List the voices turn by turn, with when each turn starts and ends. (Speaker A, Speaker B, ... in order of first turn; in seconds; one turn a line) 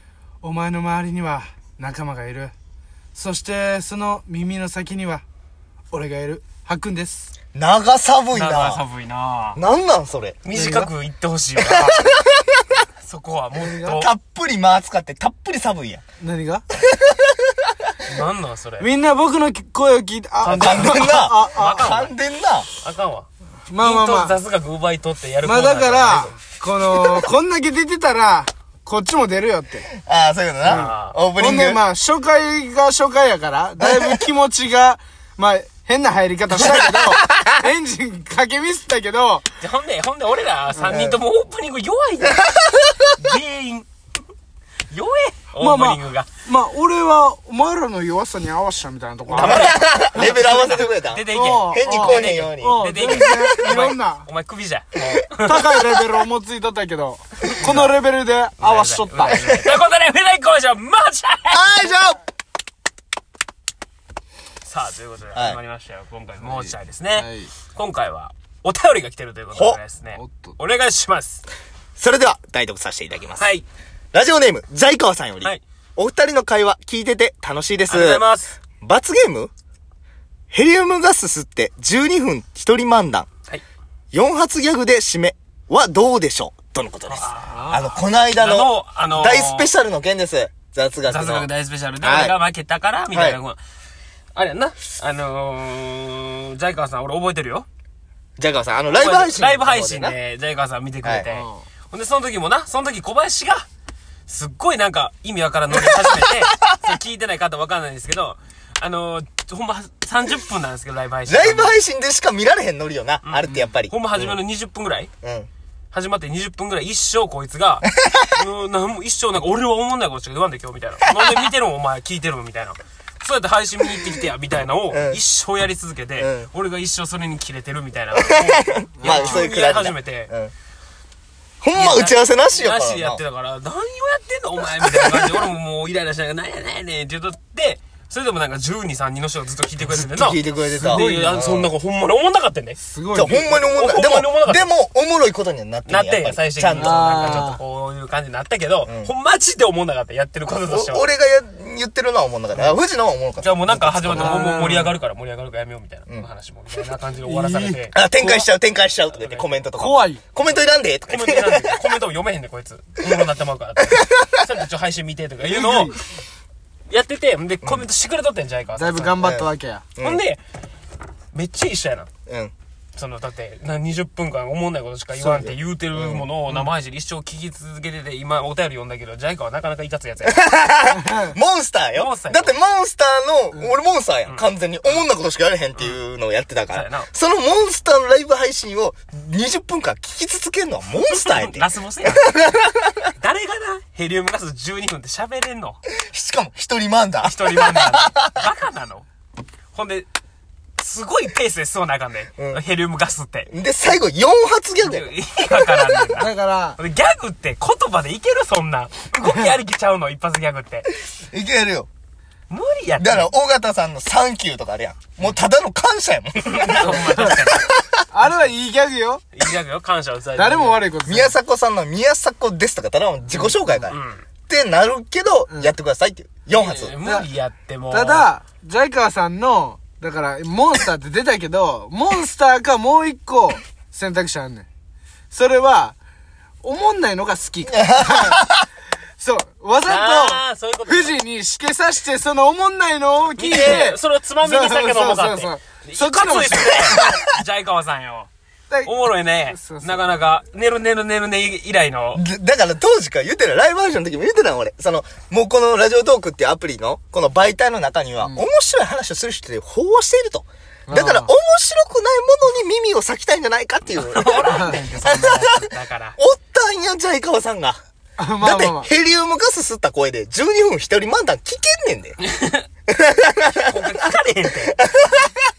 Speaker A: 0.4-2.5
Speaker A: 3.1-5.2
Speaker A: 5.9-7.3
Speaker B: 7.5-8.8
Speaker C: 8.3-9.6
Speaker B: 9.6-10.4
Speaker C: 10.4-12.2
Speaker A: 10.5-10.9
Speaker B: 11.6-12.3
Speaker C: 13.0-14.1
Speaker A: 13.6-14.0
Speaker B: 13.8-16.0
Speaker A: 16.2-16.6
Speaker B: 16.9-17.9
Speaker C: 18.0-18.9
Speaker A: 18.8-22.0
Speaker C: 20.4-22.1
Speaker B: 20.5-22.7
Speaker C: 22.8-23.3
Speaker A: 23.7-24.4
Speaker C: 23.8-26.4
Speaker A: 25.4-29.9
Speaker B: 30.0-31.8
Speaker C: 30.6-31.2
Speaker A: 30.7-39.5
Speaker B: 33.8-34.1
Speaker B: 36.6-37.1
Speaker C: 39.6-42.5
Speaker A: 40.7-41.2
Speaker C: 43.1-43.9
Speaker C: 44.9-46.3
Speaker A: 45.6-50.4
Speaker C: 49.3-55.7
Speaker B: 49.4-53.6
Speaker A: 51.3-54.3
Speaker A: 55.4-59.7
Speaker C: 57.5-58.0
Speaker C: 58.6-61.7
Speaker B: 59.3-59.7
Speaker B: 61.5-62.2
Speaker C: 64.6-71.4
Speaker B: 65.3-65.6
Speaker A: 67.2-67.5
Speaker B: 69.5-69.8
Speaker A: 70.1-70.6
Speaker B: 72.0-73.5
Speaker C: 73.4-73.7
Speaker B: 74.1-79.5
Speaker C: 77.9-78.6
Speaker B: 80.5-83.3
Speaker B: 84.1-91.5
Speaker C: 87.1-89.7
Speaker C: 91.0-93.6
Speaker B: 92.0-92.4
Speaker B: 93.1-93.4
Speaker C: 94.3-97.7
Speaker B: 98.4-100.2
Speaker C: 98.9-103.7
Speaker B: 101.0-101.3
Speaker A: 101.3-101.6
Speaker C: 104.3-111.8
Speaker B: 105.7-106.7
Speaker B: 111.3-114.4
Speaker C: 113.2-115.1
Speaker B: 115.2-115.5
Speaker C: 115.9-130.3
Speaker B: 124.9-125.2
Speaker B: 126.2-126.5
Speaker B: 128.2-130.5
Speaker A: 129.0-129.5
Speaker B: 131.6-133.2
Speaker C: 131.8-142.8
Speaker B: 134.8-135.5
Speaker B: 139.9-141.7
Speaker A: 140.7-141.4
Speaker A: 142.8-143.6
Speaker B: 143.1-147.5
Speaker C: 143.6-144.7
Speaker C: 145.9-151.0
Speaker A: 146.7-147.6
Speaker B: 148.9-149.1
Speaker B: 150.7-154.7
Speaker C: 153.4-158.0
Speaker A: 154.2-154.9
Speaker A: 157.2-158.4
Speaker B: 157.9-161.9
Speaker C: 159.1-159.5
Speaker A: 159.8-160.2
Speaker C: 161.1-166.0
Speaker B: 163.8-164.5
Speaker A: 165.4-166.0
Speaker C: 166.9-169.3
Speaker A: 168.8-169.8
Speaker B: 169.2-170.2
Speaker C: 170.0-170.4
Speaker C: 171.3-172.1
Speaker B: 172.3-172.5
Speaker C: 173.0-180.4
Speaker B: 175.2-176.3
Speaker B: 180.2-192.9
Speaker A: 180.9-181.3
Speaker C: 181.9-182.6
Speaker C: 184.3-185.0
Speaker C: 186.7-187.1
Speaker C: 191.1-192.3
Speaker C: 193.2-195.8
Speaker B: 195.9-198.5
Speaker C: 197.2-199.1
Speaker C: 199.7-200.1
Speaker C: 200.8-203.5
Speaker B: 202.4-202.6
Speaker B: 203.5-206.2
Speaker C: 204.8-210.9
Speaker A: 206.2-206.8
Speaker B: 211.3-211.9
Speaker C: 212.5-213.3
Speaker B: 213.0-218.0
Speaker C: 216.4-217.7
Speaker A: 217.0-217.3
Speaker A: 218.1-219.2
Speaker C: 219.3-220.9
Speaker A: 220.3-221.3
Speaker B: 221.1-224.0
Speaker A: 223.3-223.8
Speaker C: 223.9-224.2
Speaker B: 224.5-226.9
Speaker C: 226.5-228.3
Speaker A: 227.0-227.3
Speaker A: 227.9-234.7
Speaker A: 235.3-236.0
Speaker A: 236.6-238.5
Speaker B: 237.7-238.7
Speaker A: 239.2-247.0
Speaker C: 239.9-241.2
Speaker C: 243.4-248.3
Speaker B: 246.8-247.2
Speaker C: 248.8-252.2
Speaker A: 249.4-250.1
Speaker B: 252.1-265.5
Speaker A: 260.9-261.3
Speaker C: 263.9-266.2
Speaker A: 264.4-264.8
Speaker B: 266.2-267.8
Speaker A: 268.2-268.9
Speaker B: 268.4-272.2
Speaker C: 272.3-272.6
Speaker B: 272.9-273.9
Speaker C: 273.7-274.8
Speaker B: 274.8-275.3